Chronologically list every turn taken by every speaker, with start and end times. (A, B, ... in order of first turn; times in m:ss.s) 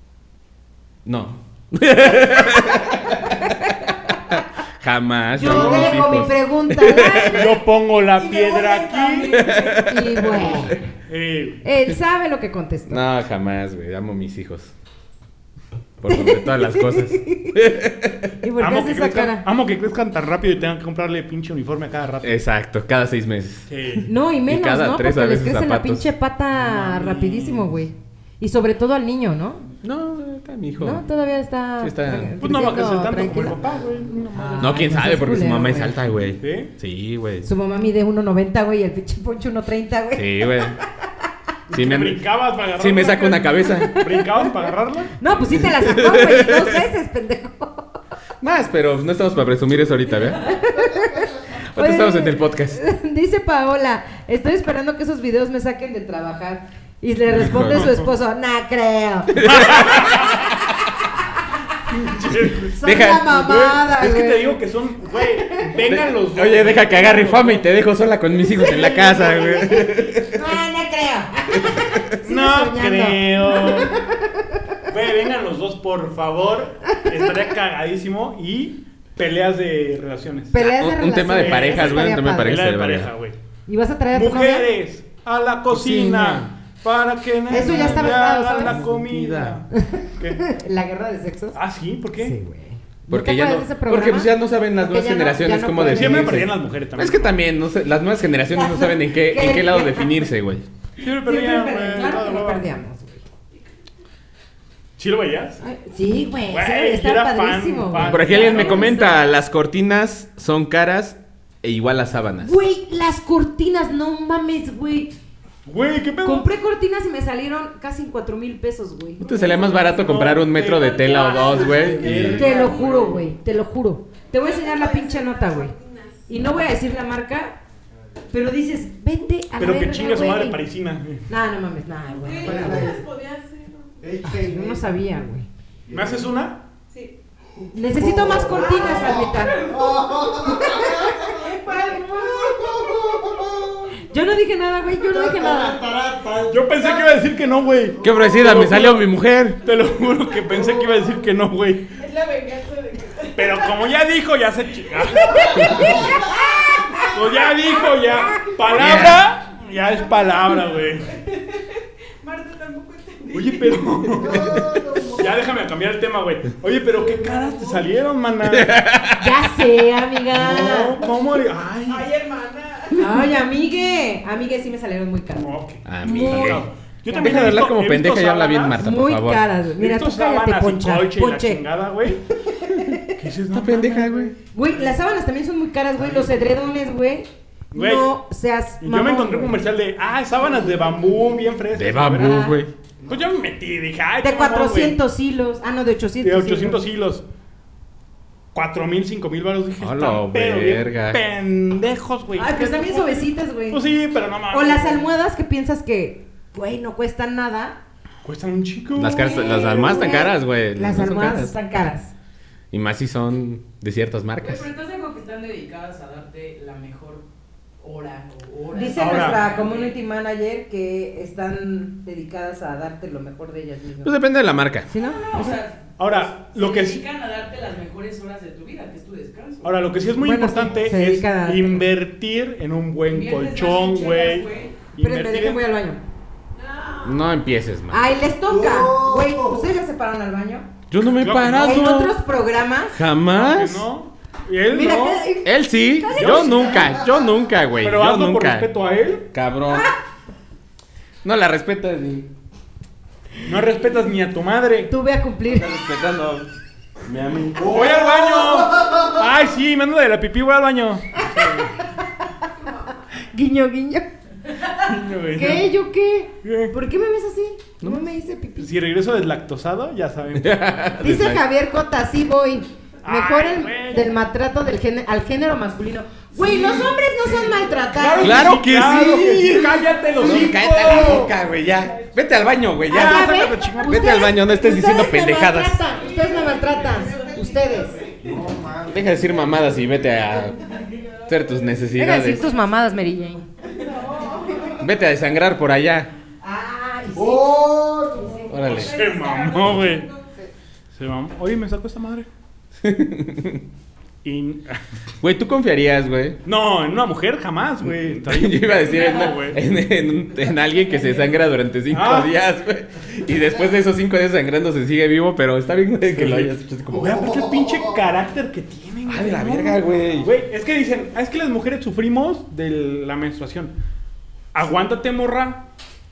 0:01.0-0:03.6 A
0:02.5-0:04.2 B
0:04.3-0:07.5 A
0:05.3-0:07.5 B
0:05.4-0:06.1 C
0:07.1-0:09.4 C
0:08.1-0:10.0 D
0:09.3-0:10.7 A
0:09.8-0:10.8 B
0:11.1-0:11.6 C
0:11.6-0:13.0 B
0:12.9-0:14.7 A
0:16.0-0:18.3 A
0:16.1-0:17.6 B
0:18.4-0:19.4 B
0:18.6-0:22.3 C
0:22.2-0:23.7 A
0:23.7-0:24.1 C
0:24.0-0:29.7 B
0:24.5-0:26.0 A
0:26.6-0:27.8 C
0:29.8-0:31.0 A
0:30.8-0:33.6 B
0:31.8-0:32.3 A
0:32.4-0:34.8 C
0:34.3-0:36.0 B
0:34.6-0:37.5 A
0:36.4-0:36.7 C
0:37.4-0:40.7 B
0:40.1-0:40.8 A
0:41.7-0:45.2 C
0:41.7-0:42.2 A
0:42.8-0:44.0 A
0:43.7-0:44.5 B
0:45.2-0:48.0 B
0:45.6-0:46.8 A
0:48.4-0:50.6 A
0:50.4-1:00.1 B
0:51.7-0:52.8 A
0:57.3-0:57.9 A
0:59.3-1:00.6 A
0:59.4-1:00.4 C
1:01.9-1:07.7 C
1:02.7-1:04.6 B
1:02.8-1:03.3 A
1:05.4-1:05.7 B
1:05.8-1:10.4 A
1:08.5-1:10.0 C
1:10.3-1:14.6 B
1:11.5-1:12.0 A
1:12.2-1:14.0 C
1:14.9-1:20.6 C
1:20.5-1:22.6 B
1:20.6-1:23.1 A
1:21.2-1:23.4 C
1:23.7-1:24.7 B
1:24.1-1:30.4 C
1:25.7-1:26.5 A
1:27.5-1:28.8 B
1:27.6-1:29.6 A
1:29.7-1:31.6 B
1:31.5-1:32.3 C
1:32.2-1:36.4 B
1:33.1-1:40.7 A
1:35.8-1:37.4 C
1:38.5-1:40.3 B
1:41.0-1:42.6 C
1:41.1-1:43.2 B
1:45.0-1:45.6 C
1:45.6-1:49.2 B
1:46.5-1:49.0 C
1:48.0-1:52.6 A
1:52.4-1:55.1 B
1:55.6-1:56.5 C
1:56.2-1:59.6 B
1:59.2-2:02.7 A
1:59.3-2:03.2 C
2:01.2-2:02.0 D
2:02.2-2:05.7 B
2:02.5-2:03.0 E
2:04.3-2:06.3 E
2:06.3-2:07.6 B
2:08.3-2:10.6 B
2:09.6-2:11.2 C
2:11.3-2:13.0 B
2:12.2-2:14.2 E
2:14.2-2:15.5 B
2:15.9-2:16.6 C
2:17.7-2:19.8 B
2:18.5-2:23.9 E
2:20.4-2:22.4 B
2:24.1-2:26.0 B
2:26.3-2:29.1 C
2:28.0-2:29.6 A
2:29.6-2:31.9 C
2:32.0-2:33.7 E
2:33.3-2:36.1 C
2:35.2-2:37.2 B
2:35.3-2:37.0 E
2:37.0-2:41.1 C
2:38.0-2:38.5 E
2:38.7-2:39.2 A
2:41.2-2:43.8 E
2:43.3-2:48.8 C
2:47.1-2:47.8 E
2:48.4-2:49.4 A
2:49.2-2:51.0 B
2:50.3-2:52.1 C
2:51.8-2:53.2 E
2:52.9-2:55.5 B
2:55.3-2:58.8 C
2:55.8-2:56.6 A
2:56.0-2:57.5 B
2:57.2-2:59.4 A
2:58.8-3:01.6 B
2:59.8-3:02.2 C
3:02.5-3:03.2 B
3:03.1-3:04.3 C
3:03.5-3:04.3 A
3:04.5-3:09.6 B
3:07.7-3:08.1 C
3:08.8-3:15.0 C
3:11.7-3:12.7 A
3:12.2-3:12.6 B
3:14.2-3:16.8 B
3:16.2-3:17.2 C
3:18.5-3:25.1 C
3:19.8-3:21.2 A
3:22.4-3:23.8 B
3:24.5-3:27.8 B
3:28.2-3:29.7 C
3:29.0-3:31.5 A
3:29.1-3:32.1 B
3:32.7-3:34.7 A
3:34.4-3:37.2 D
3:37.8-3:40.0 D
3:38.7-3:44.2 B
3:39.0-3:39.4 C
3:44.0-3:45.5 A
3:44.9-3:45.2 B
3:45.0-3:49.8 D
3:45.5-3:47.0 C
3:49.6-3:55.6 C
3:50.2-3:51.9 B
3:53.1-3:54.8 D
3:55.0-3:56.0 B
3:56.6-3:57.2 E
3:57.0-3:58.0 A
3:57.9-4:00.6 B
4:00.9-4:02.2 A
4:01.2-4:02.0 C
4:01.5-4:03.0 B
4:02.9-4:03.9 A
4:03.3-4:05.2 C
4:04.7-4:06.7 B
4:05.4-4:08.7 A
4:06.1-4:06.9 C
4:07.8-4:09.3 C
4:09.3-4:09.9 A
4:11.2-4:12.3 A
4:13.4-4:14.9 C
4:14.9-4:15.7 B
4:15.5-4:16.5 A
4:17.0-4:17.7 A
4:17.5-4:21.8 C
4:21.2-4:22.1 B
4:23.3-4:24.1 B
4:24.8-4:25.7 C
4:25.3-4:28.7 B
4:26.4-4:26.7 C
4:27.8-4:28.0 A
4:28.6-4:30.6 C
4:30.4-4:31.4 A
4:31.0-4:38.6 B
4:33.0-4:34.1 C
4:37.9-4:41.3 C
4:38.2-4:45.8 A
4:42.9-4:44.2 C
4:42.9-4:48.0 B
4:46.0-4:47.4 E
4:46.4-4:47.0 D
4:48.8-4:50.6 A
4:51.3-4:52.5 A
4:52.0-4:53.4 B
4:53.7-4:54.7 E
4:54.8-4:56.1 A
4:56.4-4:58.7 B
4:58.4-5:00.1 E
4:58.5-4:59.1 A
4:58.6-5:00.1 C
4:59.2-4:59.6 D
5:00.9-5:02.3 C
5:02.8-5:03.6 A
5:04.2-5:04.8 C
5:05.2-5:06.4 A
5:06.4-5:09.6 C
5:07.9-5:17.2 A
5:11.9-5:12.3 C
5:16.1-5:23.7 C
5:19.0-5:20.3 A
5:24.5-5:25.6 C